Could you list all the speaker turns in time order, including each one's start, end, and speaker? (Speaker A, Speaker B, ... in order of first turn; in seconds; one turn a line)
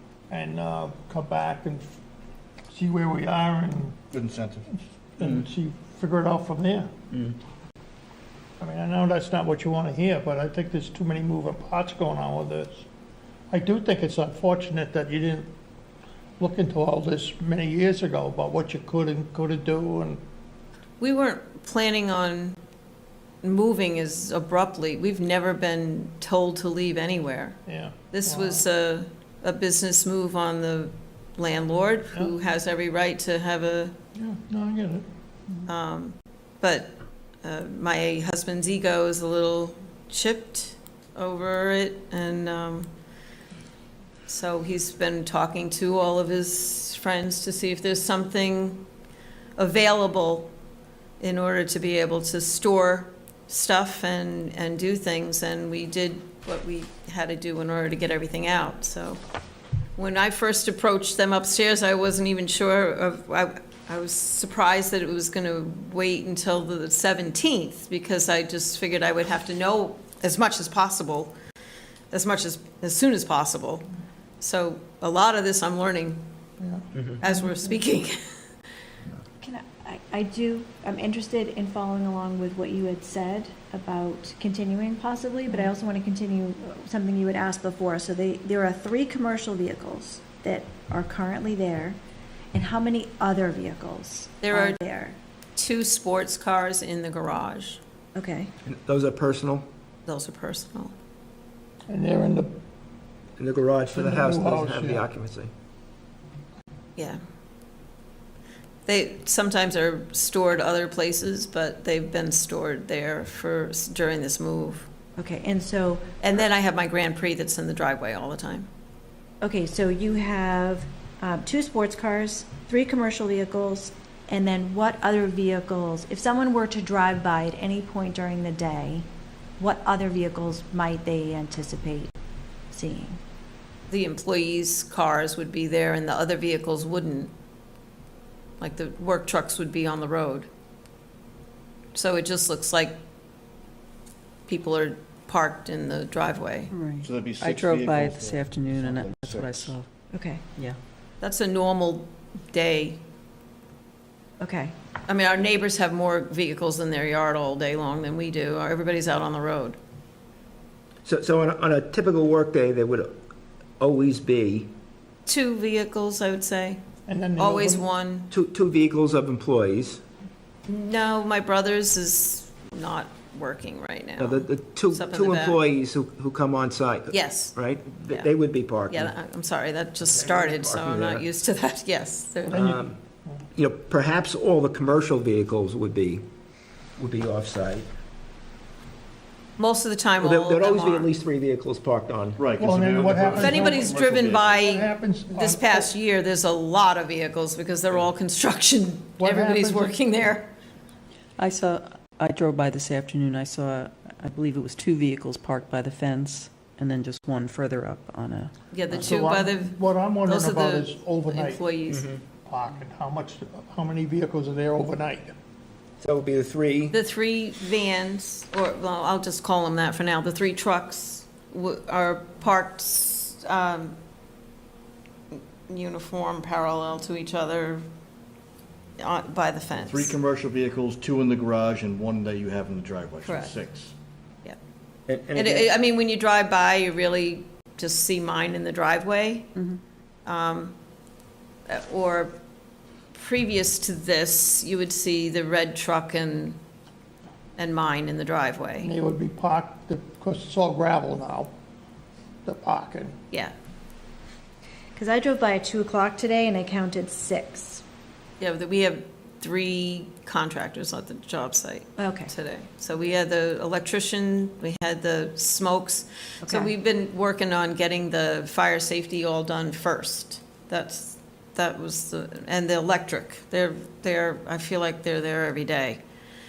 Speaker A: 0.3-1.9
Speaker A: 2.7-4.0
Speaker B: 4.1-4.7
Speaker A: 4.7-6.9
Speaker A: 8.6-12.9
Speaker A: 13.5-15.5
Speaker A: 16.4-20.2
Speaker C: 21.0-22.6
Speaker C: 23.4-27.6
Speaker A: 27.7-28.6
Speaker C: 28.1-34.0
Speaker A: 34.1-35.0
Speaker C: 35.6-42.9
Speaker C: 44.3-48.8
Speaker C: 49.6-50.5
Speaker C: 51.2-59.2
Speaker C: 60.0-71.3
Speaker C: 72.1-73.8
Speaker C: 74.4-76.2
Speaker A: 76.6-77.7
Speaker C: 77.2-78.2
Speaker D: 79.4-92.0
Speaker D: 92.5-95.2
Speaker C: 94.4-94.8
Speaker C: 95.5-97.8
Speaker D: 98.1-98.5
Speaker E: 98.6-99.7
Speaker C: 100.0-100.9
Speaker A: 101.9-102.5
Speaker E: 103.4-105.5
Speaker A: 103.9-105.0
Speaker C: 108.8-114.9
Speaker D: 115.2-116.1
Speaker C: 116.2-118.7
Speaker D: 119.4-129.1
Speaker D: 129.6-132.1
Speaker D: 132.7-133.2
Speaker C: 133.9-137.3
Speaker C: 138.6-140.5
Speaker C: 141.9-143.0
Speaker C: 144.5-146.7
Speaker F: 146.7-149.9
Speaker B: 147.0-149.8
Speaker D: 150.1-150.5
Speaker C: 151.2-153.0
Speaker D: 154.4-154.7
Speaker C: 155.1-159.8
Speaker E: 161.0-163.2
Speaker E: 163.8-164.7
Speaker C: 165.2-166.8
Speaker A: 167.1-167.9
Speaker C: 167.4-168.3
Speaker E: 168.3-170.0
Speaker C: 170.7-175.6
Speaker E: 174.2-179.1
Speaker C: 177.1-178.3
Speaker C: 178.9-182.7
Speaker E: 180.0-181.2
Speaker A: 182.5-183.4
Speaker E: 182.5-183.0
Speaker E: 183.6-186.2
Speaker E: 187.0-187.9
Speaker C: 189.6-191.1
Speaker E: 190.2-192.4
Speaker B: 192.4-194.7
Speaker A: 192.6-193.9
Speaker C: 193.3-200.5
Speaker A: 194.6-195.9
Speaker A: 199.2-200.0
Speaker F: 201.4-209.1
Speaker C: 208.7-212.1
Speaker A: 208.9-211.6
Speaker E: 211.9-212.2
Speaker A: 212.4-215.3
Speaker E: 216.0-216.9
Speaker C: 216.9-224.0
Speaker C: 225.3-227.8
Speaker C: 229.0-230.2
Speaker B: 229.8-233.9
Speaker C: 233.2-233.6
Speaker E: 235.1-235.7
Speaker C: 235.3-239.5
Speaker C: 240.2-240.7
Speaker C: 241.7-242.3
Speaker C: 243.1-246.6
Speaker C: 247.6-248.9
Speaker A: 248.8-251.5
Speaker A: 252.4-253.2
Speaker D: 254.9-257.8
Speaker C: 258.4-276.0
Speaker D: 262.0-262.3
Speaker D: 266.4-266.7